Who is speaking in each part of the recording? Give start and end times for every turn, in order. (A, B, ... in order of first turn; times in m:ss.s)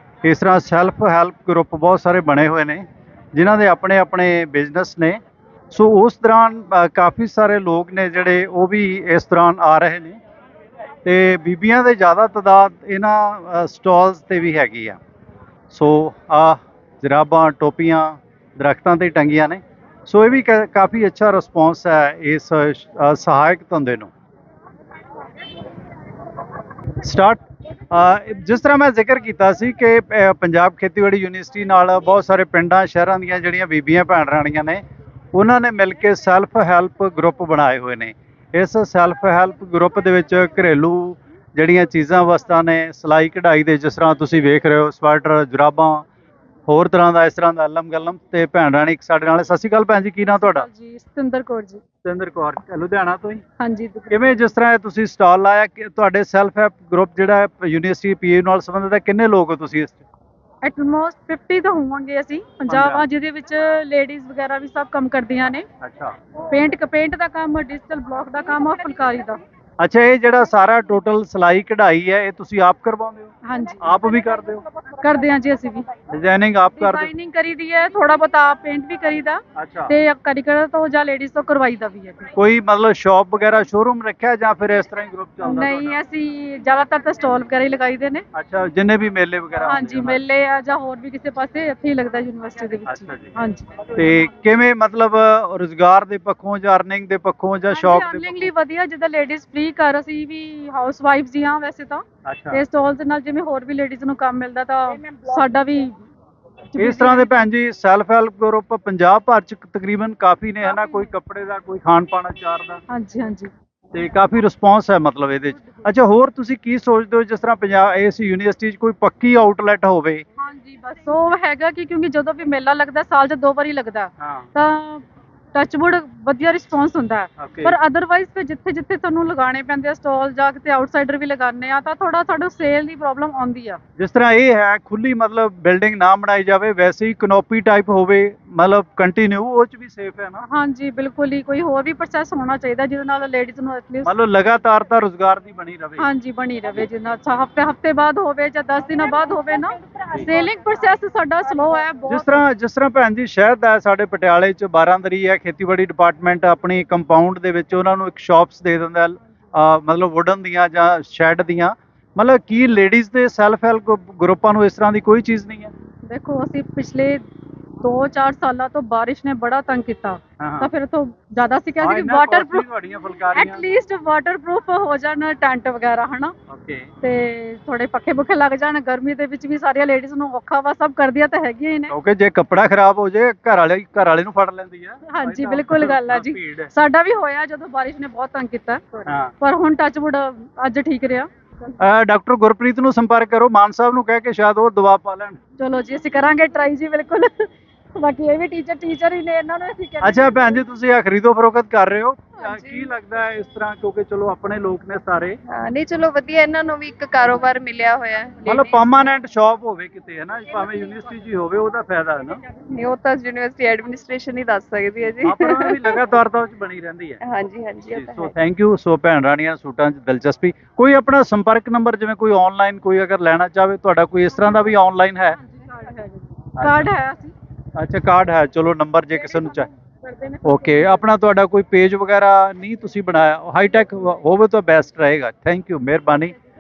0:00.2-0:05.2 A
0:05.7-0:10.2 A
0:11.0-0:15.0 A
0:15.7-0:24.1 A
0:27.0-0:34.8 A
0:35.3-0:46.1 A
0:46.7-0:50.7 A
0:50.2-0:51.8 B
0:52.0-0:53.4 A
0:53.6-0:54.4 B
0:54.1-1:00.1 A
1:00.6-1:05.7 B
1:02.7-1:03.0 A
1:05.8-1:06.1 A
1:06.4-1:09.4 B
1:09.8-1:14.6 A
1:13.4-1:14.3 B
1:14.9-1:15.9 B
1:16.1-1:17.1 A
1:16.8-1:22.3 B
1:19.6-1:19.9 A
1:22.4-1:26.0 A
1:25.4-1:28.2 B
1:28.3-1:30.2 A
1:29.6-1:33.9 B
1:32.9-1:33.3 A
1:33.9-1:38.5 A
1:37.7-1:46.0 B
1:42.2-1:42.6 A
1:46.7-1:47.5 B
1:46.8-1:52.8 A
1:50.6-1:51.1 B
1:52.9-1:53.5 B
1:53.9-2:00.2 A
2:00.4-2:13.8 B
2:04.2-2:04.5 A
2:07.4-2:07.8 A
2:14.0-2:20.4 A
2:20.4-2:24.1 B
2:24.0-2:26.1 A
2:26.0-2:32.4 B
2:32.1-2:45.7 A
2:46.1-2:47.2 B
2:47.8-2:52.7 B
2:50.4-2:50.7 A
2:51.8-2:53.7 A
2:53.3-2:56.3 B
2:56.5-2:56.9 A
2:57.0-3:01.9 B
3:01.9-3:06.7 A
3:05.1-3:11.3 B
3:09.1-3:09.3 A
3:11.8-3:15.4 A
3:15.6-3:20.6 B
3:20.0-3:25.4 A
3:22.4-3:22.9 C
3:25.5-3:28.8 C
3:28.5-3:32.4 A
3:32.7-3:36.0 C
3:35.2-3:37.2 A
3:37.2-3:38.3 C
3:37.9-3:45.4 A
3:44.4-3:47.4 B
3:46.6-3:46.9 A
3:47.8-3:49.7 A
3:49.2-3:51.0 B
3:50.4-3:56.3 A